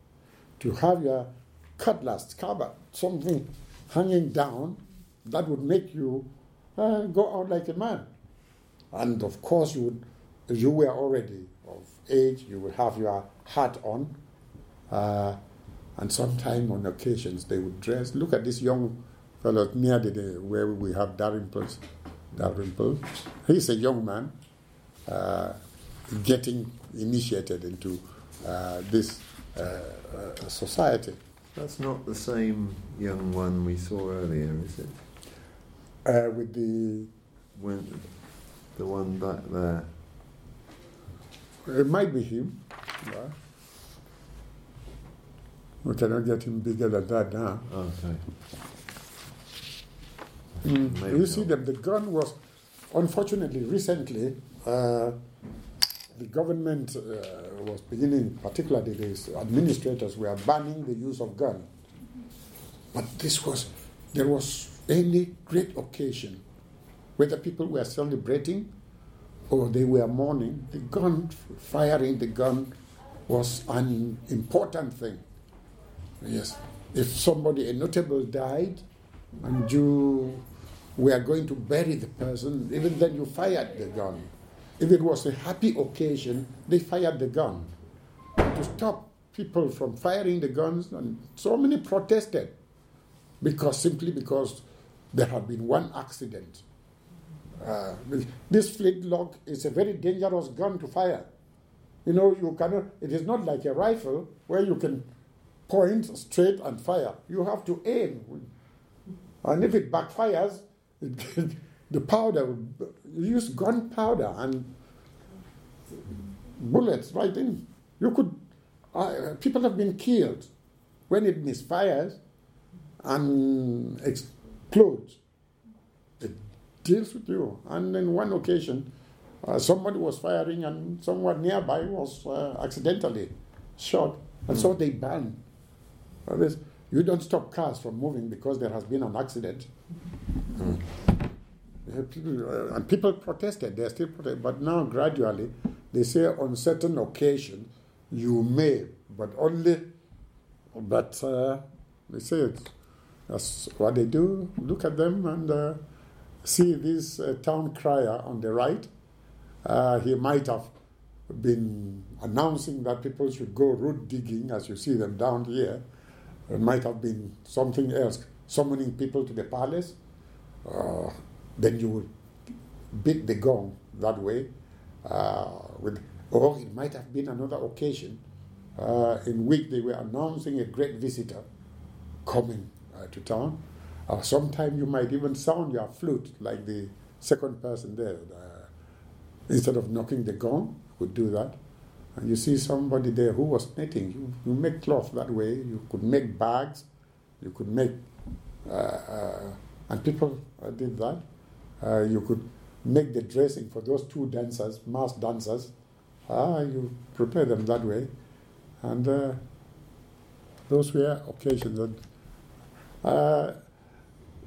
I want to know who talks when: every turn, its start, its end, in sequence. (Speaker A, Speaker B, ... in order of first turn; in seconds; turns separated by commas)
Speaker A: 0.6-8.1, Speaker A: 8.9-14.1, Speaker A: 14.9-15.4, Speaker A: 16.0-21.8, Speaker A: 22.4-24.3, Speaker A: 25.1-31.2, Speaker B: 31.6-35.0, Speaker A: 36.0-37.1, Speaker B: 37.5-40.0, Speaker A: 41.6-43.4, Speaker A: 45.8-47.7, Speaker B: 47.7-48.2, Speaker A: 50.6-52.4, Speaker B: 50.6-51.5, Speaker A: 52.9-55.2, Speaker A: 56.1-61.7, Speaker A: 62.9-66.4, Speaker A: 67.2-68.7, Speaker A: 69.5-72.7, Speaker A: 73.3-75.2, Speaker A: 76.2-78.8, Speaker A: 79.4-80.5, Speaker A: 81.0-87.7, Speaker A: 88.5-92.5, Speaker A: 93.4-96.6, Speaker A: 97.6-101.3, Speaker A: 102.0-105.1, Speaker A: 105.7-108.5, Speaker A: 109.4-114.7, Speaker A: 116.5-118.4, Speaker A: 118.9-120.5, Speaker A: 121.1-122.2, Speaker A: 123.0-125.2, Speaker A: 126.2-128.9, Speaker A: 129.4-135.4, Speaker A: 136.3-139.7, Speaker B: 140.6-140.9, Speaker A: 141.9-149.9, Speaker A: 150.7-152.7, Speaker A: 153.3-155.8, Speaker A: 156.4-158.9, Speaker A: 159.7-160.7, Speaker A: 161.3-165.8, Speaker A: 166.5-170.0, Speaker A: 170.7-172.1, Speaker A: 172.9-174.5, Speaker A: 175.1-178.2, Speaker A: 178.8-181.4, Speaker A: 182.2-188.7, Speaker A: 189.5-191.6, Speaker A: 192.2-196.9, Speaker A: 197.4-198.0, Speaker A: 198.7-201.2, Speaker A: 201.8-205.7, Speaker A: 206.3-208.1, Speaker A: 208.8-209.4, Speaker A: 210.7-212.0, Speaker A: 213.0-213.6